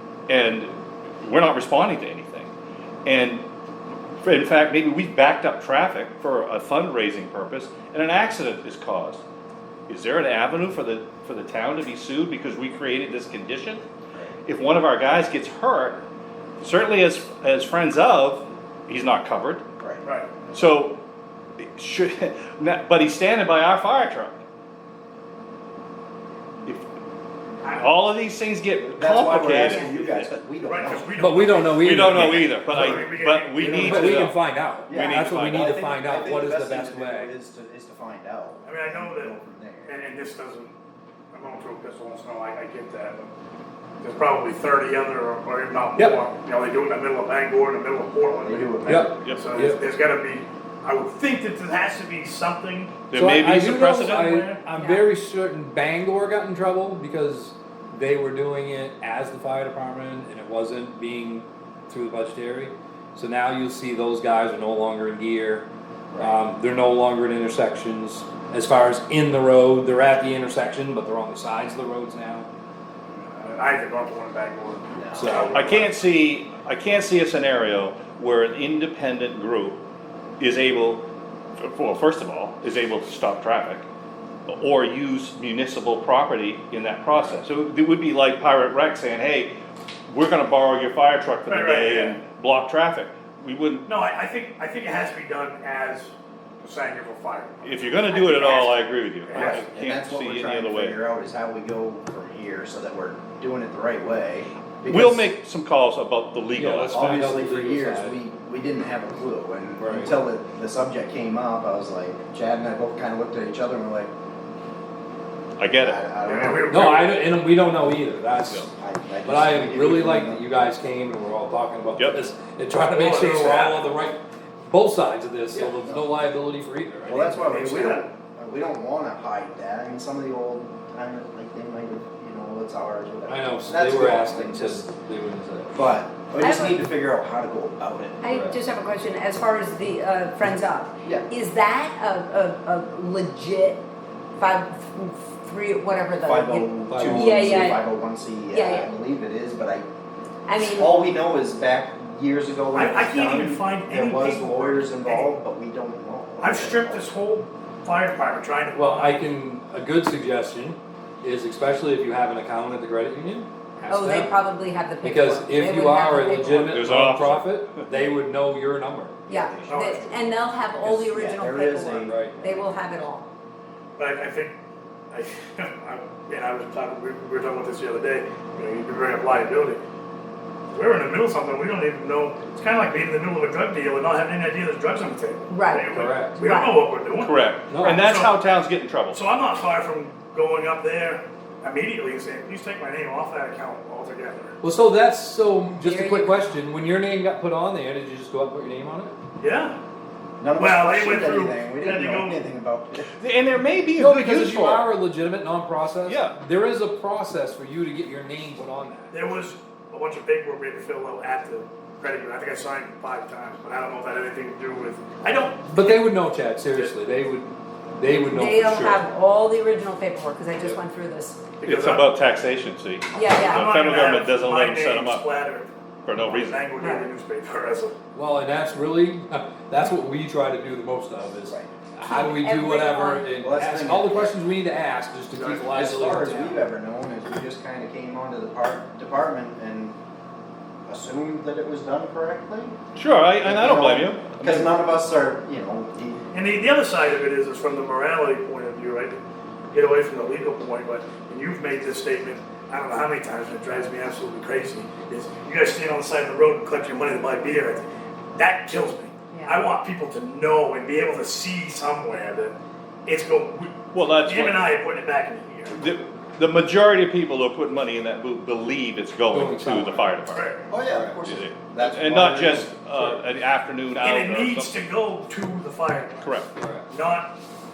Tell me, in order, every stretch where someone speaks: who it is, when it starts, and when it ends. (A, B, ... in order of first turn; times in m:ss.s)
0:00.3-0:02.5 A
0:03.0-0:03.4 A
0:04.2-0:09.2 A
0:09.9-0:13.8 A
0:14.4-0:16.0 A
0:16.6-0:19.6 A
0:19.8-0:20.0 B
0:20.0-0:20.4 C
0:20.5-0:21.0 A
0:21.6-0:24.4 A
0:27.7-0:30.3 A
0:28.8-0:31.3 B
0:30.6-0:34.3 C
0:31.2-0:32.6 D
0:31.7-0:34.4 A
0:32.7-0:33.0 B
0:33.6-0:34.1 B
0:33.7-0:37.3 D
0:34.9-0:39.9 B
0:34.9-0:35.7 A
0:38.6-0:39.3 C
0:39.9-0:40.7 C
0:41.3-0:43.3 C
0:44.0-0:54.6 C
0:48.4-0:49.2 B
0:48.9-0:49.8 D
0:49.2-0:49.4 A
0:53.1-0:54.3 A
0:53.1-1:05.7 D
0:54.7-0:55.1 E
1:06.1-1:06.4 B
1:06.2-1:12.5 D
1:13.1-1:16.0 C
1:15.0-1:15.5 B
1:15.1-1:15.5 D
1:15.5-1:19.8 A
1:20.4-1:21.0 A
1:21.6-1:23.8 A
1:24.5-1:29.5 A
1:30.1-1:33.9 A
1:31.5-1:32.2 C
1:33.8-1:39.6 C
1:37.6-1:41.0 A
1:39.3-1:45.3 B
1:44.9-1:47.1 A
1:46.5-1:48.2 D
1:46.9-1:54.1 B
1:49.8-1:50.1 D
1:55.6-1:56.0 A
1:55.8-1:56.8 B
1:56.2-1:57.2 C
1:56.7-1:58.7 D
1:58.7-2:00.7 B
1:59.2-2:07.4 D
2:02.0-2:02.2 A
2:02.9-2:03.9 C
2:05.5-2:06.0 B
2:07.1-2:14.9 B
2:07.3-2:08.1 C
2:13.3-2:15.8 D
2:15.7-2:18.3 B
2:16.4-2:16.8 E
2:18.2-2:23.8 E
2:18.3-2:18.6 D
2:24.4-2:27.9 E
2:26.2-2:29.8 B
2:26.9-2:27.6 D
2:28.5-2:28.9 E
2:30.4-2:31.0 E
2:30.6-2:37.1 B
2:32.7-2:35.3 C
2:36.4-2:39.3 C
2:38.7-2:44.4 D
2:43.9-2:46.9 E
2:45.0-2:49.2 D
2:46.6-2:47.8 A
2:49.3-2:50.2 B
2:49.3-2:53.3 E
2:49.7-2:50.2 C
2:50.8-2:52.8 B
2:52.0-2:52.4 D
2:54.0-2:54.5 C
2:55.1-2:59.8 C
3:00.7-3:08.3 C
3:05.5-3:06.8 E
3:05.9-3:06.4 D
3:07.2-3:09.2 A
3:07.7-3:08.0 D
3:09.1-3:14.6 C
3:14.6-3:19.1 D
3:15.8-3:16.4 E
3:19.4-3:19.8 C
3:20.4-3:23.1 B
3:20.6-3:22.4 C
3:23.2-3:24.9 A
3:24.0-3:29.1 D
3:26.0-3:26.4 A
3:29.1-3:36.2 C
3:35.7-3:39.0 D
3:38.3-3:41.5 E
3:41.6-3:42.1 C
3:41.6-3:45.2 A
3:43.1-3:43.7 E
3:43.4-3:45.7 C
3:46.0-3:46.7 A
3:46.2-3:47.9 C
3:46.8-3:47.1 E
3:48.1-3:56.6 D
3:52.0-3:53.3 E
3:53.4-3:54.3 B
3:55.4-3:55.6 C
3:55.5-3:59.9 B
4:00.9-4:02.8 B
4:02.9-4:04.7 A
4:03.4-4:06.2 B
4:06.3-4:09.2 C
4:09.7-4:22.5 C
4:19.3-4:19.6 E
4:23.0-4:25.8 C
4:23.9-4:24.7 A
4:25.7-4:30.5 A
4:29.3-4:30.1 D
4:30.3-4:30.7 C
4:30.7-4:32.7 B
4:30.9-4:31.1 D
4:31.2-4:34.8 A
4:34.0-4:37.3 C
4:36.2-4:36.5 A
4:36.6-4:36.8 D